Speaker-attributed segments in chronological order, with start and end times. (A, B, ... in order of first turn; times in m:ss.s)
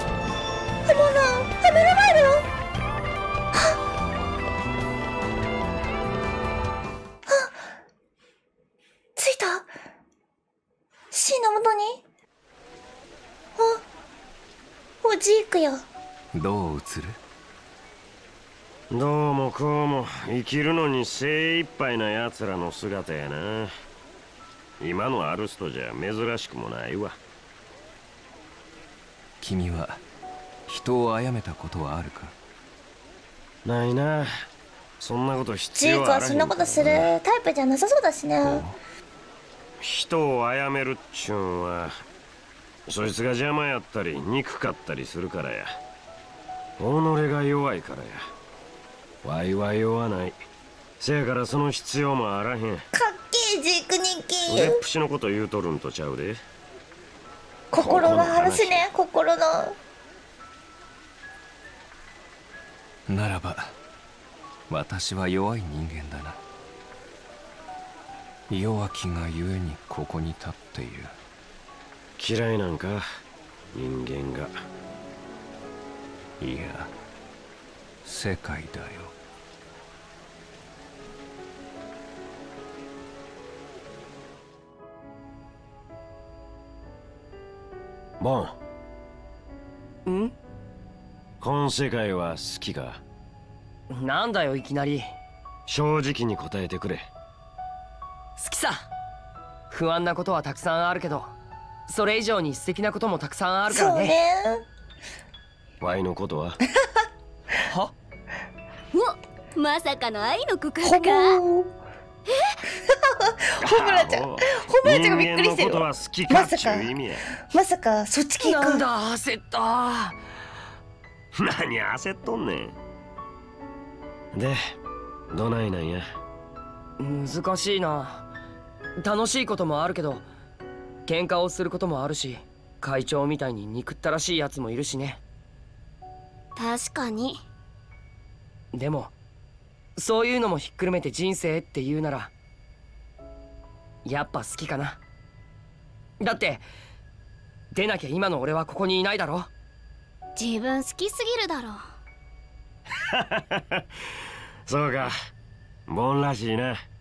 0:00.9-0:02.5 A
0:03.5-0:03.8 A
0:07.3-0:07.5 A
0:09.2-0:09.7 A
0:11.1-0:12.0 A
0:15.0-0:15.8 A
0:16.3-0:17.2 B
0:18.9-0:23.7 C
0:24.8-0:27.2 C
0:29.4-0:30.0 B
0:30.7-0:32.4 B
0:33.6-0:34.3 C
0:35.0-0:37.1 C
0:35.7-0:38.6 A
0:38.4-0:38.8 B
0:39.8-0:41.9 C
0:42.9-0:45.7 C
0:46.8-0:48.2 C
0:49.2-0:50.4 C
0:51.0-0:52.8 C
0:52.9-0:54.8 A
0:54.5-0:56.4 C
0:57.7-0:59.8 A
0:57.8-0:58.9 C
1:03.1-1:03.7 B
1:04.7-1:06.4 B
1:08.5-1:11.2 B
1:12.2-1:13.0 C
1:13.8-1:14.5 C
1:16.4-1:16.9 B
1:18.0-1:19.1 B
1:28.2-1:28.6 C
1:30.1-1:30.3 D
1:31.4-1:33.0 C
1:33.9-1:35.1 D
1:35.7-1:37.0 C
1:38.4-1:38.9 D
1:39.7-1:41.3 D
1:41.9-1:44.2 D
1:43.7-1:44.6 A
1:45.8-1:46.6 C
1:48.9-1:51.4 E
1:50.8-1:51.7 A
1:52.9-1:56.9 A
1:53.6-1:57.2 C
1:57.5-1:58.8 A
1:58.4-2:00.2 D
2:01.4-2:02.8 C
2:04.4-2:04.6 C
2:05.3-2:06.0 C
2:07.0-2:08.2 D
2:09.0-2:10.2 D
2:11.1-2:15.2 D
2:16.6-2:17.4 E
2:18.7-2:19.1 D
2:20.0-2:22.3 D
2:24.0-2:25.0 D
2:26.2-2:26.6 D
2:27.7-2:29.5 D
2:30.4-2:31.8 E
2:33.2-2:33.8 C
2:34.7-2:35.1 C
2:35.9-2:36.8 C